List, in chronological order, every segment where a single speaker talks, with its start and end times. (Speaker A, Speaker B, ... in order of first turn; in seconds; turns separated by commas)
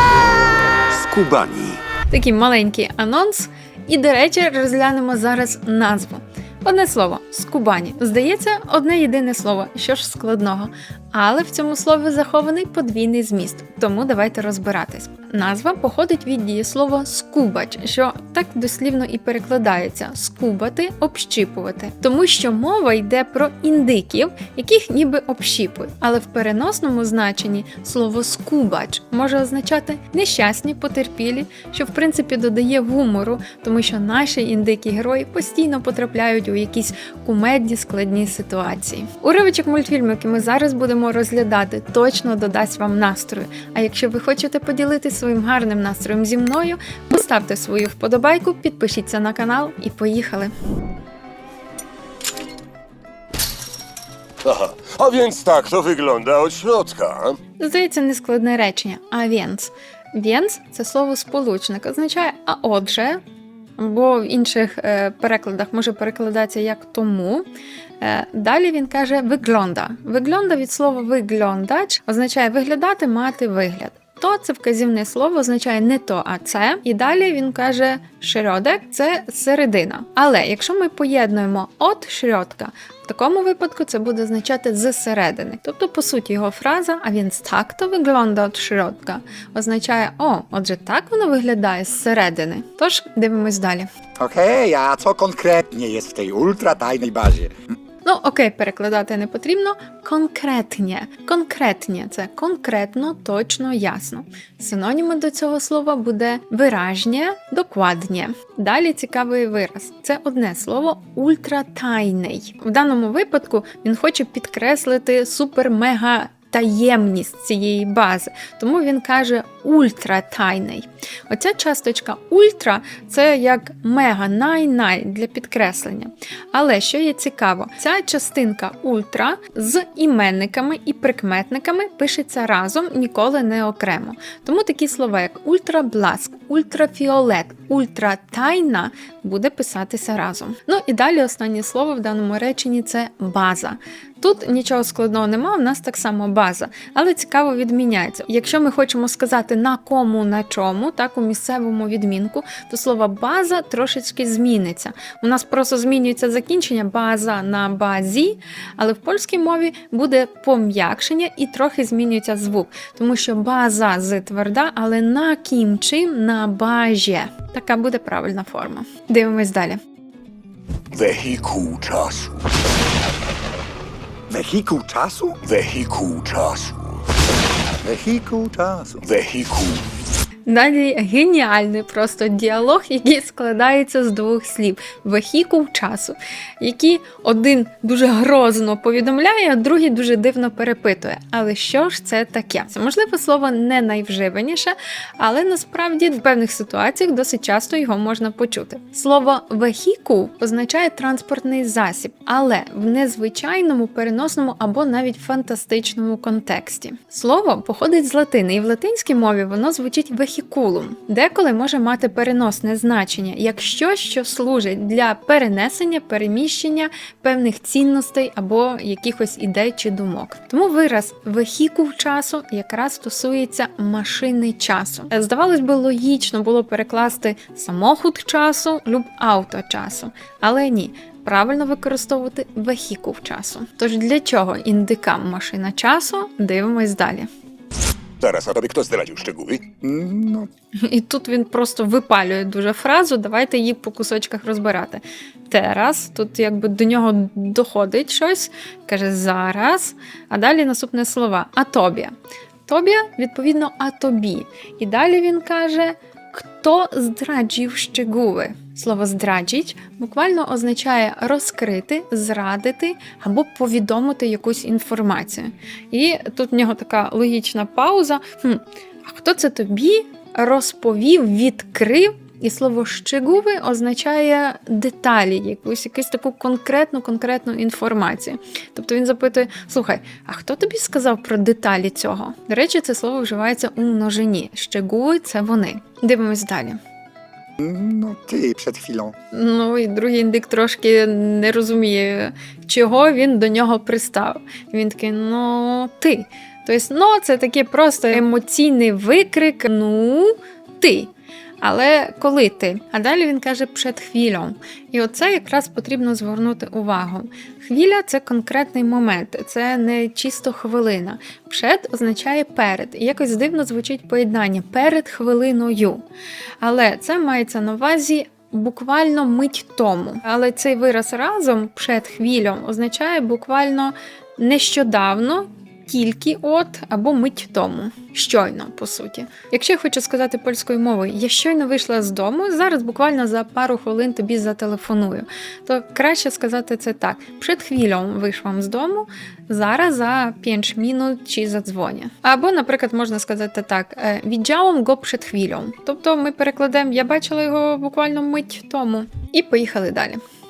Speaker A: 1.0-1.8, Speaker B: 2.1-50.5, Speaker A: 54.4-57.4, Speaker B: 57.6-63.2, Speaker B: 63.8-67.5, Speaker B: 68.0-93.9, Speaker C: 94.2-97.5, Speaker B: 98.0-169.8, Speaker A: 170.9-172.5, Speaker C: 174.3-175.4, Speaker A: 175.4-177.0, Speaker C: 177.8-179.1, Speaker A: 179.0-179.8, Speaker B: 180.5-237.3, Speaker A: 238.2-239.7, Speaker C: 239.8-240.5, Speaker B: 240.8-252.1, Speaker B: 252.7-286.8, Speaker C: 287.6-289.1, Speaker B: 289.3-316.0, Speaker B: 316.6-350.2